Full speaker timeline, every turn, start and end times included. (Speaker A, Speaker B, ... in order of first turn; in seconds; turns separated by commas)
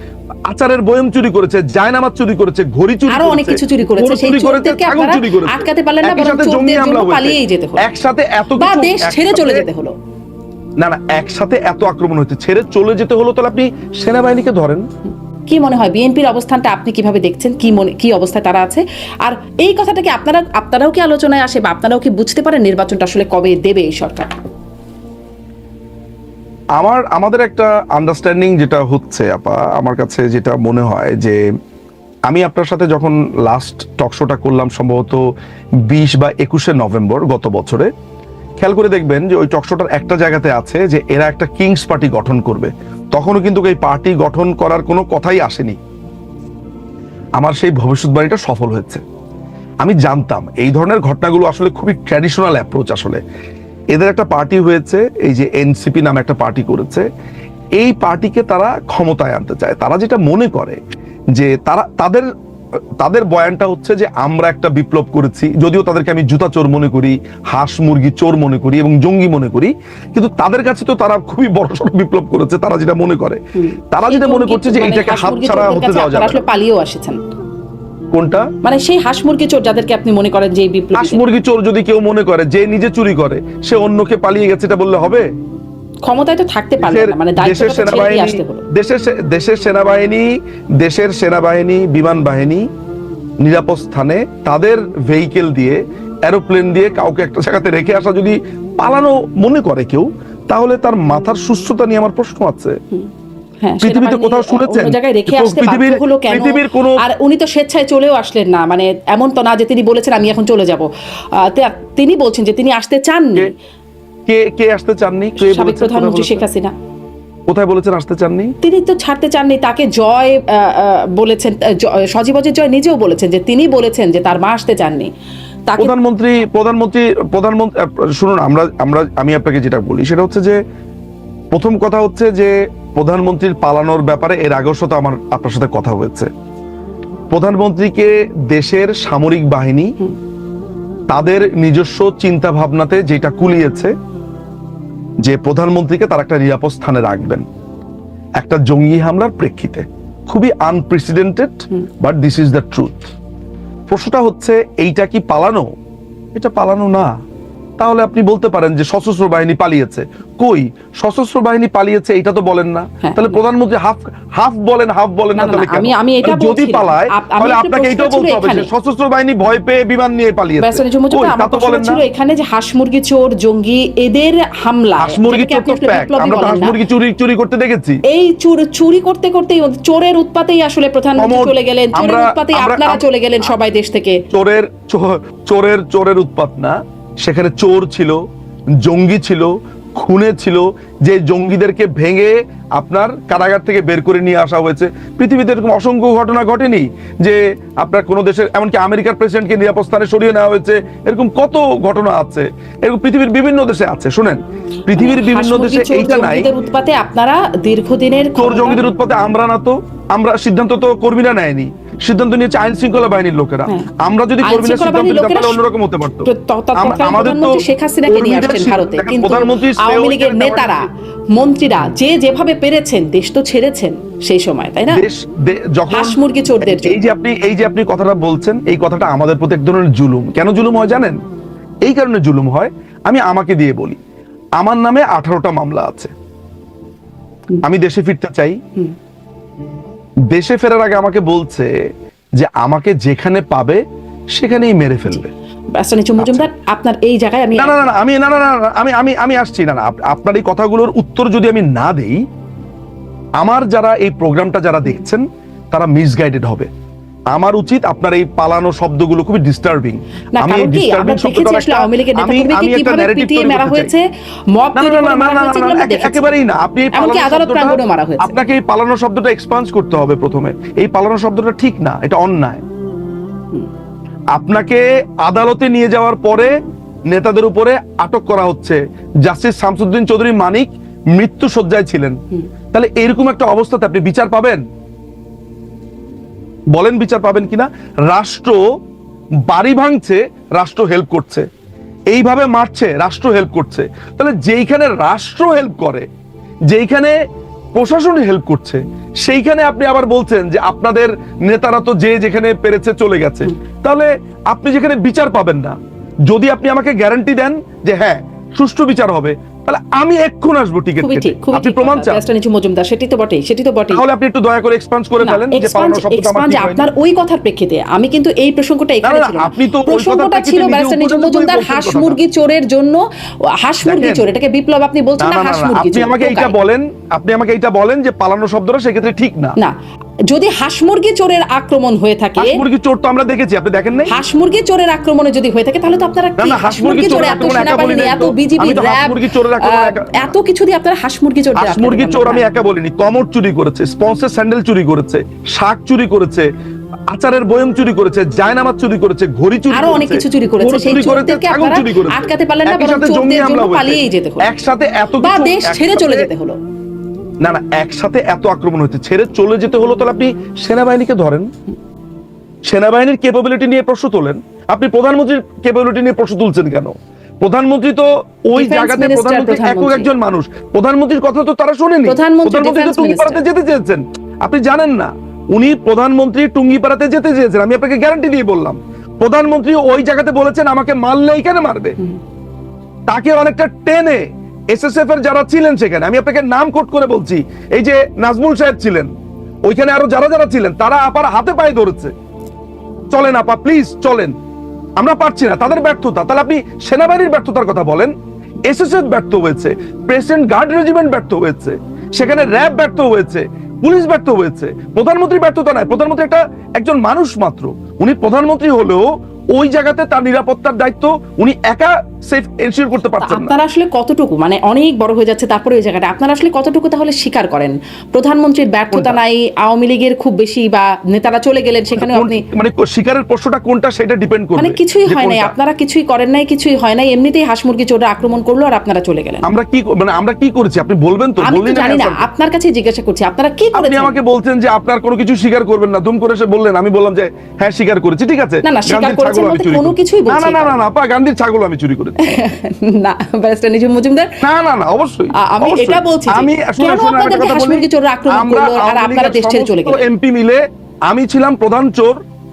Speaker A: 0.5-9.7, Speaker B: 3.1-7.9, Speaker B: 8.6-9.9, Speaker A: 10.8-14.8, Speaker B: 15.5-24.3, Speaker A: 26.8-31.4, Speaker A: 32.3-35.2, Speaker A: 35.9-37.9, Speaker A: 38.6-45.8, Speaker A: 47.4-49.0, Speaker A: 49.8-53.2, Speaker A: 53.9-57.1, Speaker A: 57.8-60.8, Speaker A: 61.3-62.3, Speaker A: 63.0-73.4, Speaker B: 73.6-77.2, Speaker A: 73.9-76.4, Speaker A: 78.1-78.5, Speaker B: 78.6-81.2, Speaker A: 81.0-85.2, Speaker B: 86.0-88.6, Speaker A: 86.8-92.7, Speaker A: 93.4-102.8, Speaker B: 103.6-113.5, Speaker A: 103.8-107.0, Speaker A: 114.2-116.4, Speaker B: 115.4-116.7, Speaker A: 117.5-118.5, Speaker B: 118.6-125.1, Speaker A: 125.8-130.6, Speaker A: 131.5-136.3, Speaker A: 137.3-139.9, Speaker A: 141.1-143.9, Speaker A: 145.2-147.4, Speaker A: 148.4-153.0, Speaker A: 153.9-155.7, Speaker A: 156.3-157.1, Speaker A: 157.8-172.0, Speaker B: 163.0-163.4, Speaker B: 165.4-168.7, Speaker B: 170.6-176.8, Speaker A: 175.0-178.0, Speaker B: 178.1-184.2, Speaker A: 181.2-183.0, Speaker A: 184.3-188.2, Speaker A: 188.8-206.5, Speaker B: 204.9-208.8, Speaker A: 208.3-220.9, Speaker B: 214.4-215.6, Speaker B: 216.2-225.0, Speaker A: 224.9-231.2, Speaker B: 225.9-227.0, Speaker A: 231.8-234.0, Speaker A: 234.6-236.1, Speaker A: 237.6-238.6, Speaker A: 240.3-241.7, Speaker A: 242.4-243.8, Speaker A: 244.3-245.3, Speaker B: 245.7-247.9, Speaker A: 246.2-246.5, Speaker A: 247.6-252.2, Speaker A: 253.4-256.7, Speaker A: 257.3-263.9, Speaker B: 260.4-266.2, Speaker A: 264.8-272.6, Speaker B: 266.9-268.3, Speaker A: 274.3-276.5, Speaker A: 277.1-282.1, Speaker A: 282.7-284.6, Speaker A: 286.7-288.6, Speaker A: 289.5-291.4, Speaker A: 292.1-296.1, Speaker A: 296.7-297.1, Speaker A: 297.7-305.8, Speaker A: 306.3-312.2, Speaker B: 311.0-314.0, Speaker A: 313.9-316.9, Speaker B: 315.2-323.0, Speaker A: 319.0-322.2, Speaker B: 323.5-326.5, Speaker A: 323.8-324.2, Speaker A: 325.2-329.6, Speaker B: 330.3-332.6, Speaker A: 332.4-334.1, Speaker B: 334.1-342.4, Speaker A: 336.4-340.3, Speaker A: 341.6-346.5, Speaker A: 347.1-356.3, Speaker B: 349.7-354.5, Speaker B: 355.2-356.6, Speaker A: 357.4-361.5, Speaker A: 362.7-382.0, Speaker B: 368.5-370.1, Speaker B: 372.0-373.4, Speaker A: 383.1-389.1, Speaker A: 389.6-392.1, Speaker A: 393.1-394.3, Speaker A: 395.0-398.1, Speaker A: 398.6-413.5, Speaker B: 413.2-422.4, Speaker A: 418.9-419.2, Speaker A: 421.9-425.5, Speaker B: 424.6-429.4, Speaker A: 429.4-432.2, Speaker B: 431.4-434.1, Speaker A: 433.7-442.2, Speaker B: 438.6-440.8, Speaker B: 442.2-444.3, Speaker A: 444.4-452.2, Speaker B: 445.4-450.0